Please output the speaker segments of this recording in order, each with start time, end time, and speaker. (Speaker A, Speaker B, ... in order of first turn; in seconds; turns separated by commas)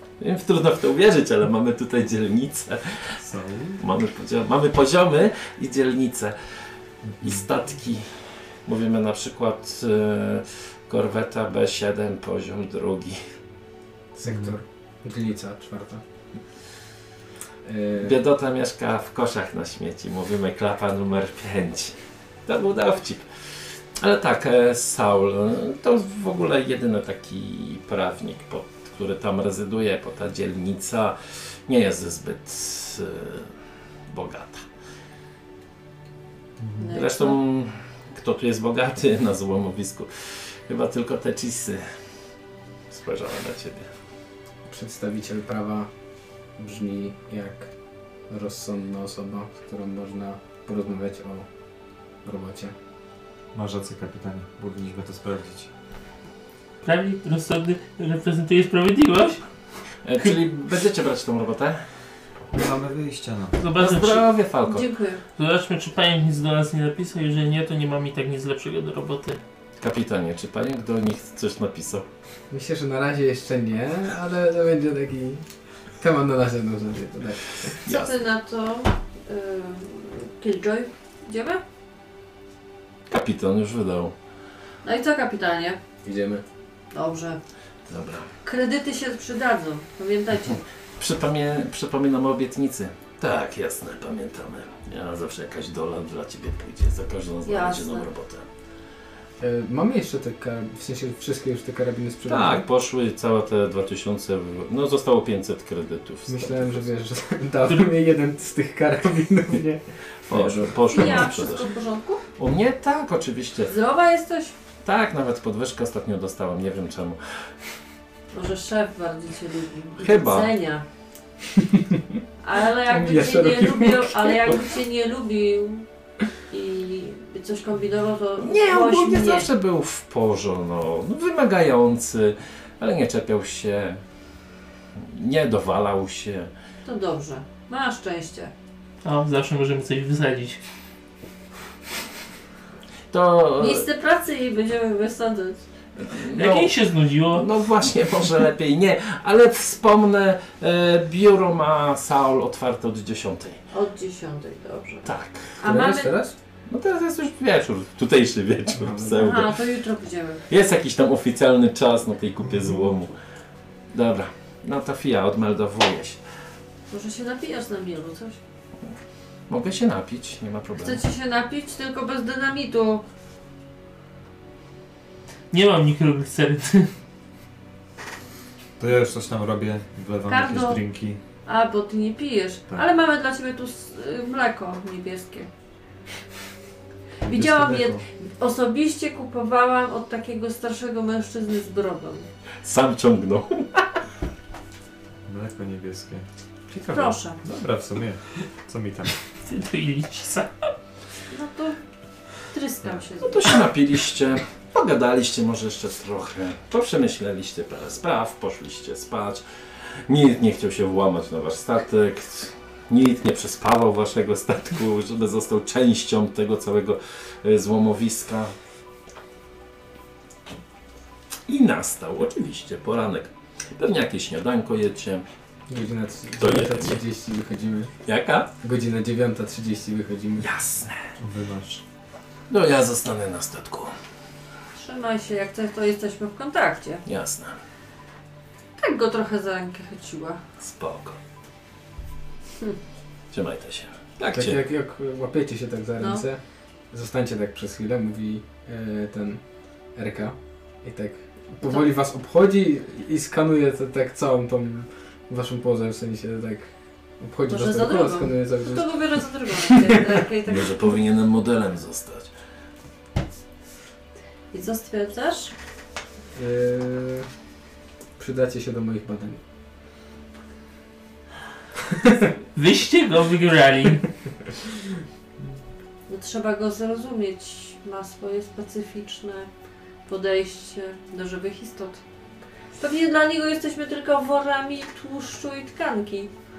Speaker A: 0.2-3.1, Speaker B: 3.2-3.8, Speaker A: 3.8-6.4, Speaker B: 7.0-7.4, Speaker A: 7.2-8.1, Speaker A: 8.7-13.2, Speaker C: 14.2-16.0, Speaker B: 14.2-14.6, Speaker C: 17.6-18.1, Speaker A: 18.0-23.3, Speaker A: 24.0-33.5, Speaker A: 34.1-34.6, Speaker B: 36.6-36.9, Speaker D: 36.8-37.4, Speaker A: 36.9-41.9, Speaker A: 42.9-43.9, Speaker C: 44.7-45.9, Speaker C: 46.6-47.7, Speaker C: 48.3-51.5, Speaker C: 52.2-52.7, Speaker B: 53.5-55.7, Speaker E: 56.8-59.4, Speaker A: 60.0-61.8, Speaker B: 62.5-63.6, Speaker E: 63.6-64.3, Speaker A: 63.8-64.9, Speaker D: 64.7-65.2, Speaker E: 65.4-69.4, Speaker A: 69.8-72.0, Speaker C: 72.5-75.4, Speaker C: 76.0-77.8, Speaker A: 77.8-78.2, Speaker D: 77.8-81.6, Speaker A: 83.1-84.1, Speaker D: 84.8-85.8, Speaker C: 86.0-86.4, Speaker D: 86.9-87.4, Speaker A: 87.9-88.3, Speaker D: 88.4-90.6, Speaker A: 91.0-98.5, Speaker D: 97.5-98.1, Speaker C: 99.4-102.7, Speaker A: 102.3-106.9, Speaker C: 106.3-111.2, Speaker A: 110.3-111.7, Speaker D: 110.9-112.2, Speaker A: 112.4-113.7, Speaker D: 113.7-114.5, Speaker A: 114.8-117.2, Speaker D: 118.3-120.8, Speaker A: 120.0-120.5, Speaker C: 121.6-122.0, Speaker D: 122.4-125.9, Speaker C: 122.9-124.6, Speaker D: 126.5-129.5, Speaker A: 128.4-134.0, Speaker A: 135.0-136.5, Speaker D: 136.8-138.5, Speaker E: 139.0-140.6, Speaker A: 143.1-143.9, Speaker D: 143.6-145.6, Speaker A: 146.0-146.7, Speaker E: 146.3-147.5, Speaker A: 147.3-153.6, Speaker D: 153.7-156.2, Speaker A: 155.1-155.6, Speaker C: 155.7-156.3, Speaker A: 156.7-159.6, Speaker C: 158.8-159.2, Speaker D: 159.1-160.4, Speaker A: 160.5-163.1, Speaker A: 163.9-166.2, Speaker D: 166.9-168.4, Speaker A: 169.5-171.0, Speaker D: 170.8-173.1, Speaker E: 175.5-176.9, Speaker B: 178.8-181.2, Speaker D: 180.3-180.8, Speaker D: 181.5-185.5, Speaker D: 187.2-192.3, Speaker B: 187.2-188.0, Speaker A: 192.6-193.8, Speaker B: 195.3-199.2, Speaker D: 196.9-197.4, Speaker E: 199.4-200.5, Speaker D: 201.3-201.8, Speaker D: 202.5-203.7, Speaker A: 203.2-209.4, Speaker A: 210.1-218.5, Speaker A: 221.5-225.2, Speaker C: 225.7-227.9, Speaker A: 226.4-227.0, Speaker A: 228.1-228.5, Speaker C: 228.6-230.5, Speaker A: 230.4-231.1, Speaker B: 231.2-231.8, Speaker A: 232.5-233.9, Speaker D: 234.8-237.0, Speaker A: 237.1-237.6, Speaker D: 238.8-240.4, Speaker A: 240.6-241.2, Speaker A: 243.3-244.6, Speaker C: 244.3-246.4, Speaker D: 246.0-246.2, Speaker C: 246.9-249.4, Speaker C: 249.9-260.2, Speaker D: 257.5-261.0, Speaker A: 260.5-262.3, Speaker D: 264.5-265.5, Speaker C: 266.4-267.3, Speaker C: 268.2-269.4, Speaker E: 272.6-274.0, Speaker D: 276.1-279.5, Speaker D: 280.1-282.0, Speaker D: 282.8-286.3